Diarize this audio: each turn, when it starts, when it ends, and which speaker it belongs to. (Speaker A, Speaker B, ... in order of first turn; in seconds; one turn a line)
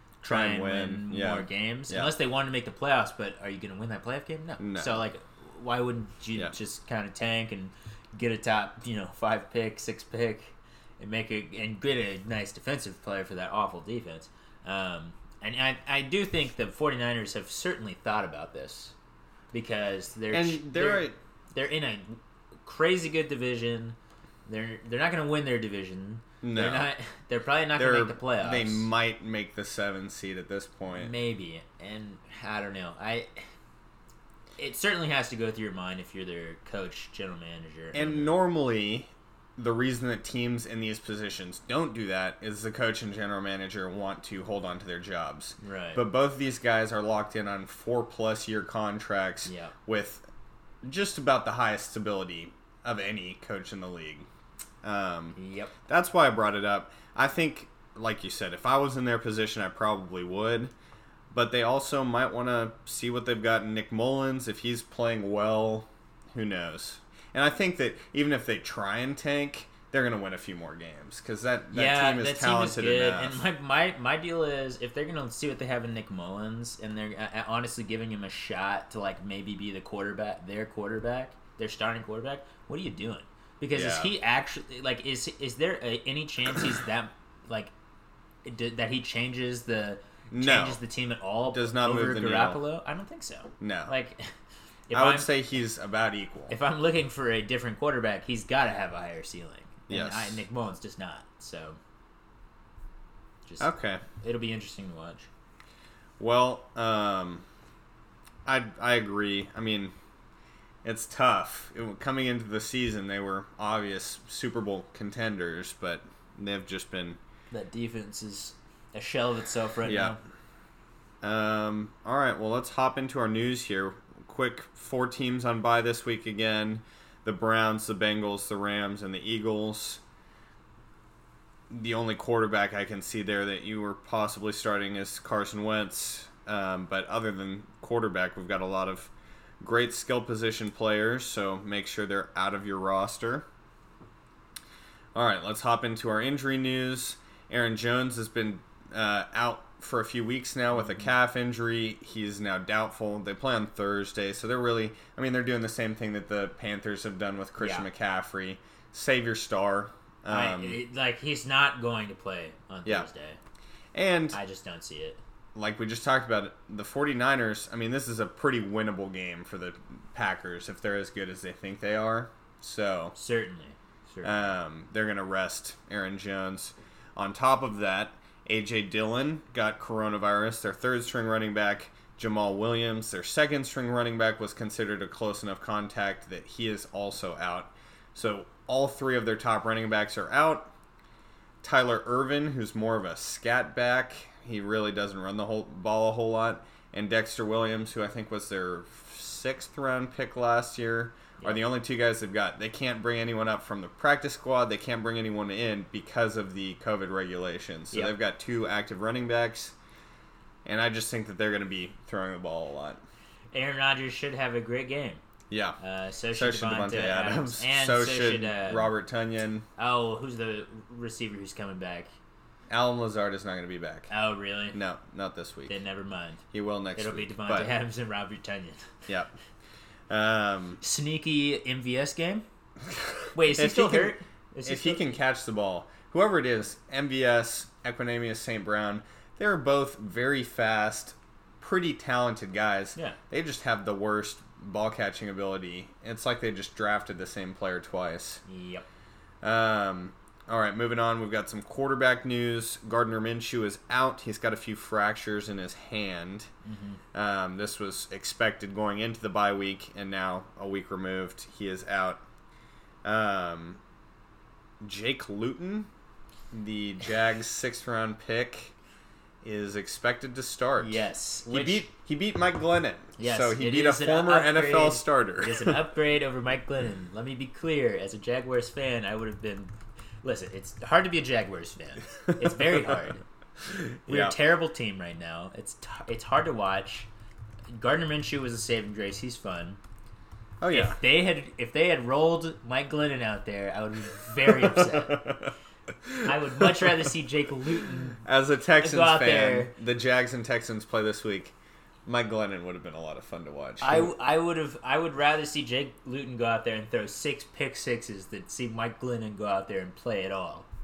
Speaker A: 0.2-18.9
Speaker B: 0.3-2.1
Speaker B: 4.6-5.0
Speaker A: 19.5-28.9
Speaker B: 20.3-21.1
Speaker B: 26.4-26.9
Speaker B: 27.8-31.1
Speaker A: 30.9-33.3
Speaker A: 34.6-38.3
Speaker B: 37.9-50.2
Speaker A: 45.6-46.0
Speaker A: 49.5-49.7
Speaker B: 50.8-54.3
Speaker B: 54.8-60.7
Speaker A: 55.4-55.7
Speaker B: 61.3-73.4
Speaker A: 71.7-87.7
Speaker B: 83.7-84.1
Speaker A: 88.5-94.3
Speaker B: 90.3-90.8
Speaker B: 91.5-92.6
Speaker B: 93.6-93.9
Speaker A: 94.9-95.3
Speaker B: 94.9-96.5
Speaker A: 96.5-101.8
Speaker B: 99.9-100.5
Speaker A: 103.5-105.3
Speaker B: 103.6-104.0
Speaker B: 106.2-107.5
Speaker B: 108.5-109.9
Speaker B: 110.8-117.2
Speaker A: 117.5-120.2
Speaker B: 119.9-120.2
Speaker B: 121.2-130.0
Speaker B: 131.7-143.5
Speaker B: 145.1-160.8
Speaker A: 150.8-151.1
Speaker A: 157.6-157.9
Speaker A: 160.3-163.4
Speaker B: 163.9-164.4
Speaker A: 164.3-165.2
Speaker B: 165.6-173.1
Speaker A: 173.2-174.4
Speaker B: 174.2-190.7
Speaker B: 191.6-209.8
Speaker B: 210.7-213.0
Speaker A: 213.5-215.2
Speaker B: 215.5-215.8
Speaker A: 215.8-218.9
Speaker B: 216.3-219.7
Speaker A: 219.8-222.1
Speaker B: 222.7-224.1
Speaker A: 224.1-224.8
Speaker B: 224.7-225.7
Speaker A: 225.7-226.4
Speaker B: 226.5-227.7
Speaker A: 227.0-229.0
Speaker B: 229.1-229.3
Speaker B: 230.1-230.8
Speaker A: 230.8-232.4
Speaker B: 232.8-248.4
Speaker A: 233.3-235.1
Speaker A: 248.4-248.8
Speaker B: 249.4-256.5
Speaker A: 256.6-257.0
Speaker B: 257.1-262.2
Speaker B: 263.0-263.8
Speaker B: 264.8-265.9
Speaker B: 266.5-268.8
Speaker B: 269.4-275.8
Speaker A: 270.8-271.9
Speaker A: 273.2-283.2
Speaker B: 282.2-283.1
Speaker B: 283.6-284.4
Speaker A: 284.1-287.1
Speaker A: 287.7-289.8
Speaker B: 290.6-291.0
Speaker A: 290.7-295.3
Speaker B: 294.4-297.1
Speaker A: 296.2-298.2
Speaker B: 298.2-301.6
Speaker A: 298.8-299.7
Speaker B: 302.1-304.1
Speaker A: 303.8-310.7